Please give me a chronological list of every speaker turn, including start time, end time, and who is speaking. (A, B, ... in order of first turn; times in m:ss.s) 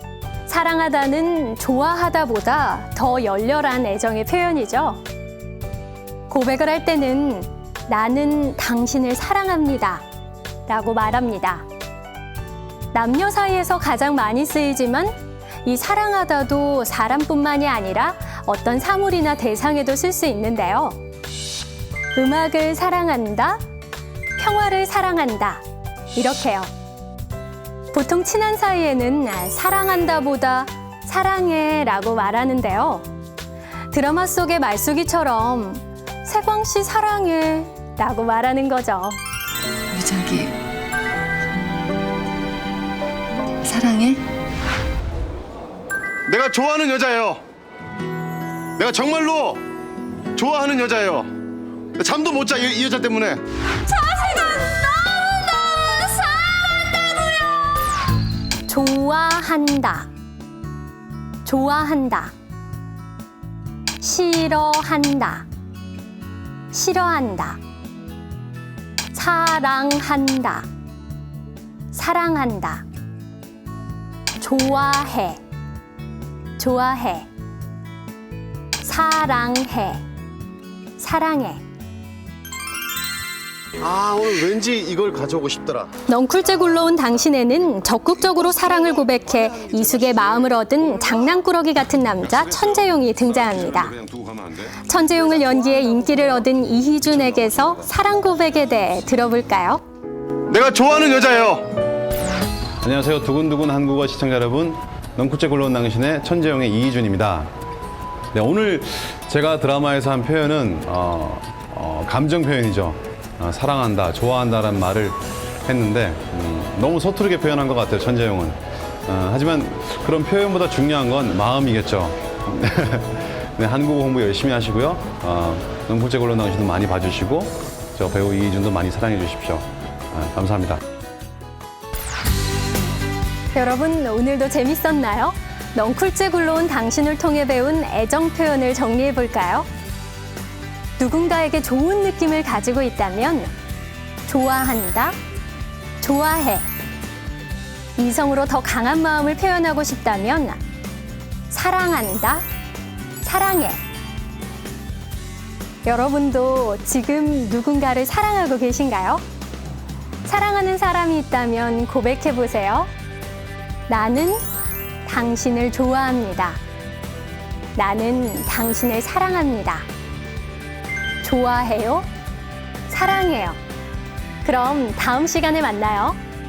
0:00.5-0:05.0 A
0:06.3-0:10.0 A
0:10.7-0:11.6 A
0:12.9-0:21.0 A
0:22.2-0:23.6 A
0:24.4-0:25.6 A
0:26.2-0:26.7 A
0:27.9-0:33.1 A
0:33.9-0:39.2 A
0:39.9-0:40.6 B
0:43.6-0:44.2 B
0:46.3-0:47.4 C
0:48.8-0:49.6 C
0:50.4-0:51.3 C
0:52.0-0:53.4 C
0:53.9-0:57.1 B
0:58.7-1:00.1 A
1:01.4-1:02.3 A
1:04.0-1:05.5 A
1:06.7-1:07.6 A
1:09.1-1:10.7 A
1:11.9-1:12.8 A
1:14.4-1:15.4 A
1:16.6-1:17.3 A
1:18.8-1:20.0 A
1:21.0-1:21.6 A
1:23.8-1:25.9 C
1:26.1-1:34.0 A
1:34.0-1:34.6 C
1:34.7-1:39.8 A
1:40.5-1:41.7 C
1:42.8-1:47.5 D
1:48.3-2:10.8 D
2:13.5-2:19.7 A
2:21.0-2:23.5 A
2:24.3-2:25.2 A
2:26.0-2:26.7 A
2:28.0-2:30.6 A
2:31.5-2:32.4 A
2:33.2-2:33.8 A
2:35.8-2:39.2 A
2:40.2-2:42.9 A
2:43.9-2:44.4 A
2:45.0-2:46.6 A
2:47.8-2:49.9 A
2:51.2-2:52.1 A
2:52.9-2:53.6 A
2:54.4-2:56.2 A